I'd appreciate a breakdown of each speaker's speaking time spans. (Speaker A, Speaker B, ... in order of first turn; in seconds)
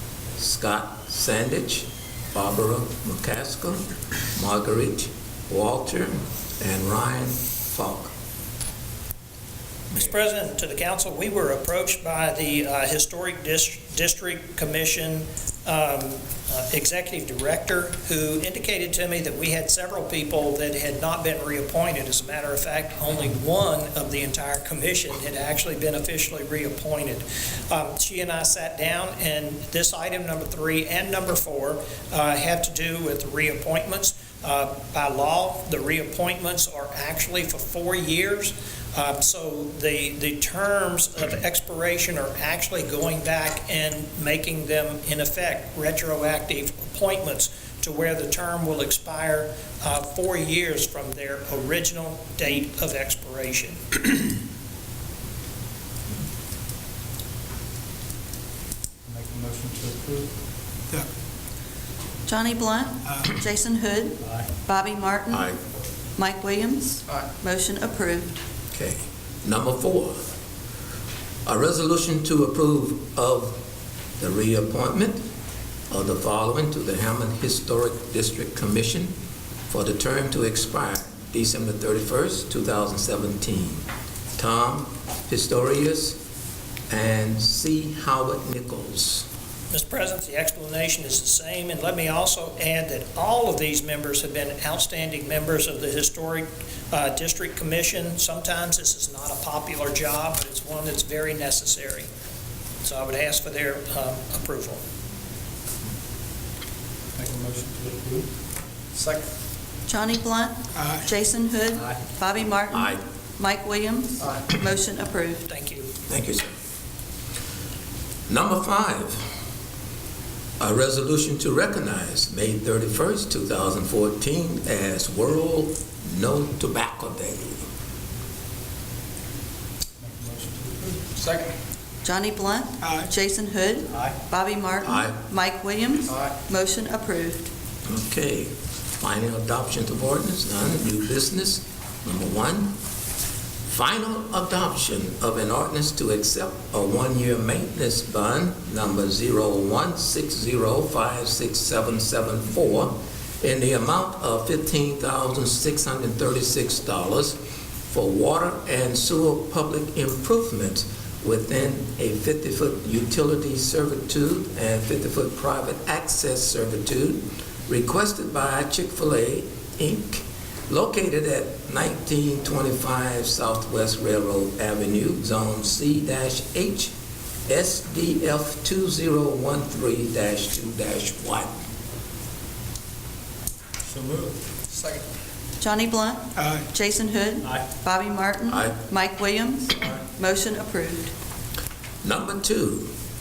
Speaker A: 0.4-3.8, 4.3-8.1, 65.3-65.6, 68.7-70.2, 71.5-73.6, 74.2-75.2, 75.9-79.1, 79.7-83.8, 84.4-86.2, 86.9-89.3, 112.7-113.0, 116.1-116.5, 118.3-119.3, 120.6-127.7, 134.8-135.2, 137.9-142.7, 143.7-176.9, 177.5-181.5, 188.5-188.8, 192.0-192.9
Speaker B: 9.9-54.4, 89.7-102.1, 102.8-104.8, 115.5-115.9
Speaker C: 59.1-60.3, 107.2-108.3, 109.0-109.2, 111.7-112.0, 130.0-131.4, 133.9-134.2, 183.8-185.0
Speaker D: 62.3-65.5, 66.2-68.4, 109.9-115.5, 132.0-137.5, 185.6-191.1